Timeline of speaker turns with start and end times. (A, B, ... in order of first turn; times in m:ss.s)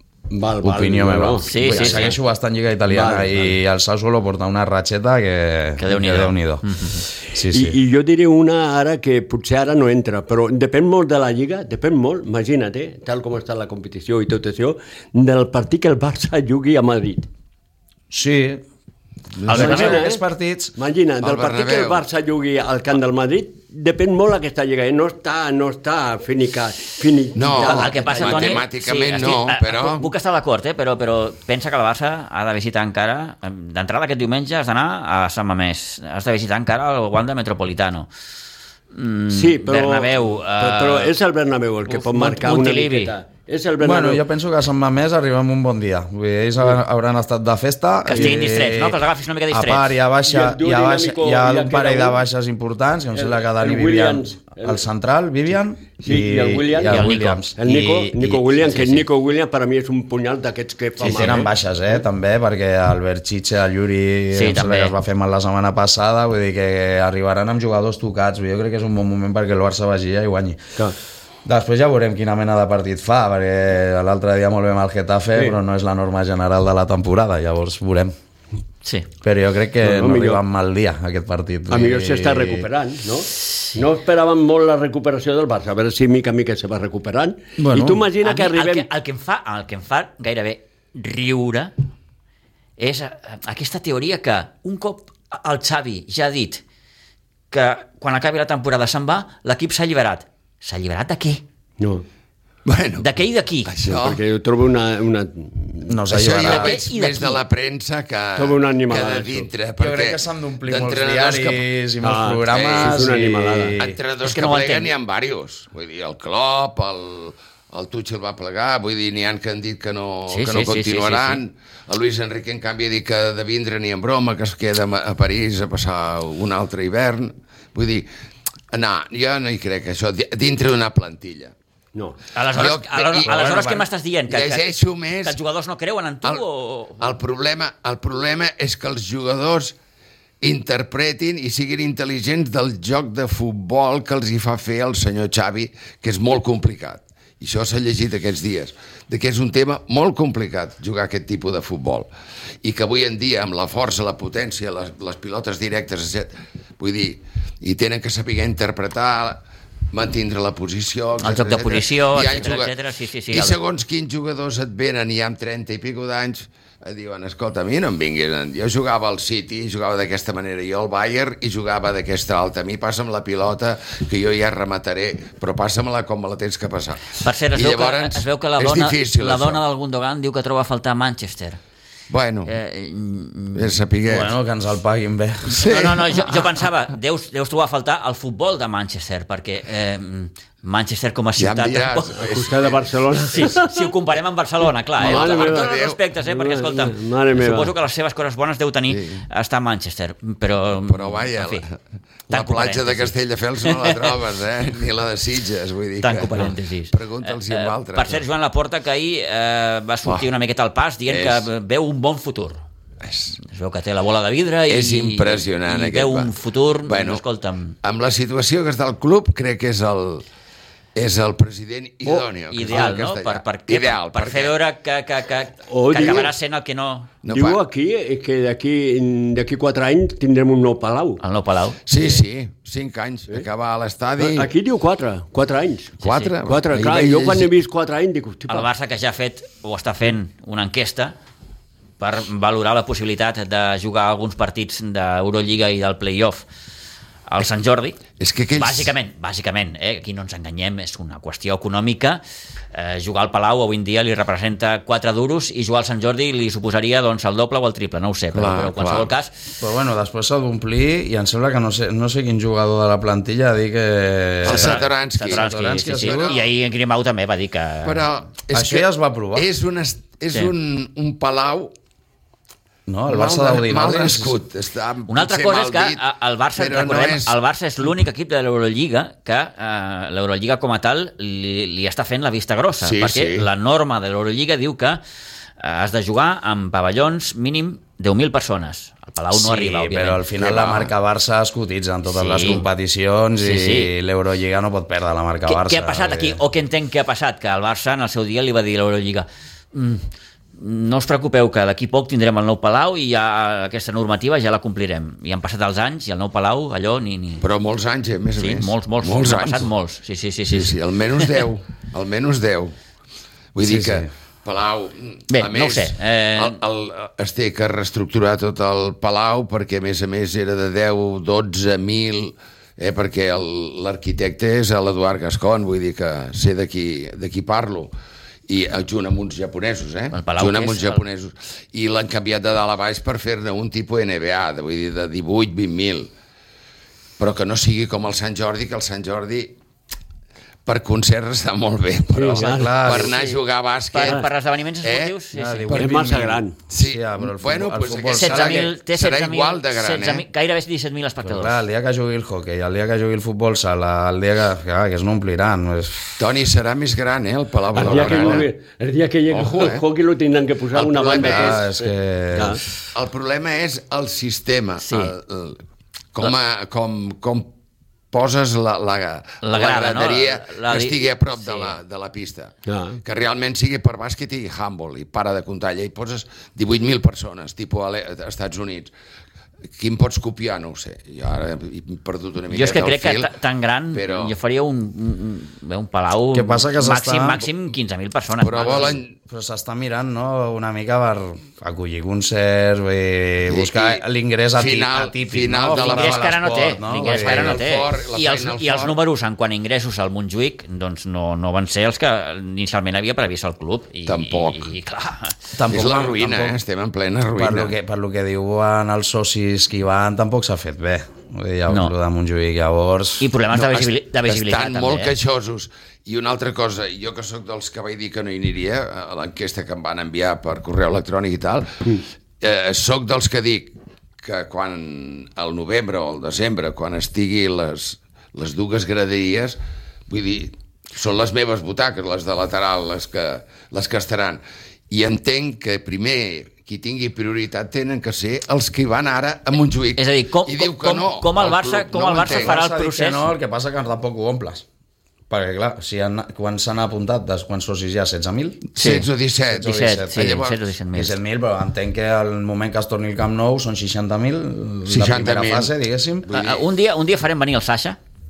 0:00.3-0:02.2 A
0:00.6-0:06.7 B
0:01.4-0:02.1 C
0:02.9-0:03.6 A
0:05.8-0:07.1 C
0:07.3-0:07.8 B
0:07.5-0:17.3 A
0:18.1-0:18.6 B
0:19.4-0:19.8 D
0:19.5-0:20.0 C
0:19.5-0:20.7 B
0:19.5-0:20.2 A
0:20.8-0:28.6 A
0:21.2-0:22.0 D
0:27.3-0:30.1 D
0:27.6-0:38.1 C
0:38.9-0:41.1 C
0:39.3-0:44.2 A
0:41.8-0:43.1 C
0:43.8-0:59.0 B
0:48.0-0:49.9 C
0:50.2-0:52.2 A
0:53.1-0:54.8 A
0:56.0-1:01.5 A
0:56.8-0:57.4 C
0:58.7-0:59.0 C
1:01.0-1:10.7 B
1:04.3-1:04.9 C
1:11.4-1:18.1 B
1:19.2-1:22.7 B
1:19.8-1:20.4 A
1:21.7-1:28.9 A
1:27.6-1:28.1 B
1:28.2-1:31.7 C
1:32.8-1:36.6 C
1:37.5-1:41.4 C
1:41.8-1:42.0 A
1:42.6-1:43.1 D
1:43.0-1:43.7 C
1:43.6-1:44.2 D
1:43.8-1:46.1 A
1:45.9-1:46.8 B
1:46.1-1:51.6 D
1:46.4-1:47.4 C
1:48.4-1:49.5 A
1:49.8-1:54.0 B
1:52.0-1:53.8 A
1:52.5-1:53.0 D
1:53.8-2:08.1 D
1:54.2-1:54.9 C
2:00.3-2:01.4 C
2:08.7-2:11.5 D
2:12.3-2:14.7 C
2:12.5-2:15.4 D
2:15.2-2:17.1 C
2:17.0-2:19.7 D
2:20.4-2:32.1 D
2:32.6-2:39.4 D
2:39.9-2:42.7 D
2:41.2-2:43.6 C
2:43.3-2:59.6 D
2:57.2-3:01.6 C
3:02.1-3:02.5 D
3:02.5-3:03.7 C
3:03.5-3:04.3 D
3:04.1-3:05.6 B
3:05.5-3:06.5 D
3:05.5-3:12.2 C
3:11.4-3:13.5 D
3:12.2-3:13.9 A
3:13.3-3:21.6 C
3:15.0-3:17.7 A
3:15.0-3:16.0 D
3:18.9-3:19.2 D
3:20.9-3:21.8 D
3:22.3-3:23.1 C
3:22.3-3:28.2 D
3:23.6-3:24.0 C
3:26.0-3:32.6 C
3:31.1-3:31.5 D
3:33.0-3:33.4 D
3:33.4-3:37.8 C
3:34.7-3:36.3 D
3:36.9-3:37.2 D
3:37.8-3:40.2 D
3:40.9-3:44.5 D
3:42.0-3:42.8 A
3:42.5-3:47.1 C
3:45.7-3:46.3 A
3:47.2-3:47.6 D
3:47.3-3:51.2 A
3:51.2-3:52.2 C
3:51.9-3:54.5 D
3:54.2-3:58.7 A
3:56.0-3:56.3 C
3:56.0-3:57.5 D
3:58.5-4:01.1 C
4:02.0-4:06.4 C
4:07.3-4:08.0 C
4:08.2-4:08.9 D
4:08.6-4:12.2 C
4:12.7-4:19.3 C
4:18.3-4:19.1 D
4:19.6-4:26.3 B
4:24.4-4:26.5 D
4:24.4-4:28.0 C
4:27.8-4:31.7 D
4:28.5-4:29.5 B
4:32.9-4:34.4 B
4:33.1-4:36.0 D
4:35.1-4:45.0 C
4:36.6-4:37.4 D
4:42.8-4:43.4 D
4:45.6-4:50.2 C
4:49.3-4:56.4 B
4:50.3-4:50.9 D
4:52.1-4:52.6 C
4:53.4-4:53.9 C
4:55.4-5:00.0 C
5:00.6-5:07.4 C
5:07.4-5:09.7 D
5:08.4-5:11.3 C
5:10.5-5:12.7 D
5:13.5-5:27.9 D
5:13.6-5:14.1 B
5:15.3-5:16.6 C
5:28.5-5:36.1 D
5:30.1-5:31.0 C
5:37.2-5:39.6 D
5:40.6-5:44.2 D
5:42.1-5:43.2 A
5:42.3-5:43.1 B
5:43.9-5:45.8 C
5:44.8-5:45.1 D
5:45.3-5:48.7 B
5:45.7-5:46.0 D
5:45.8-5:46.6 A
5:46.7-5:50.2 D
5:48.1-5:51.6 C
5:51.2-5:56.2 B
5:56.2-5:58.5 D
5:57.7-6:02.6 A
5:57.8-5:58.4 B
5:59.3-5:59.8 D
6:00.7-6:01.6 D
6:01.2-6:02.6 B
6:02.9-6:05.6 D
6:04.8-6:05.1 C
6:06.1-6:07.5 D
6:08.1-6:18.9 D
6:09.4-6:11.8 C
6:12.7-6:13.0 A
6:19.8-6:23.3 D
6:22.5-6:29.0 C
6:23.9-6:24.3 D
6:26.3-6:27.4 B
6:28.4-6:29.1 D
6:29.3-6:37.6 B
6:33.5-6:34.0 D
6:34.5-6:36.4 D
6:35.7-6:45.4 C
6:37.0-6:39.0 D
6:44.1-6:44.7 D
6:45.6-6:46.6 B
6:45.7-6:47.7 D
6:47.4-6:53.3 B
6:51.7-6:51.9 C
6:53.2-6:55.1 C
6:53.5-7:22.6 D
7:20.0-7:23.3 C
7:22.2-7:24.6 B
7:25.3-7:28.6 B
7:28.7-7:30.6 D
7:28.8-7:29.1 C
7:29.5-7:30.3 B
7:29.6-7:31.2 C
7:30.9-7:36.3 B
7:34.8-7:35.7 D
7:36.2-7:36.6 D
7:36.3-7:38.0 C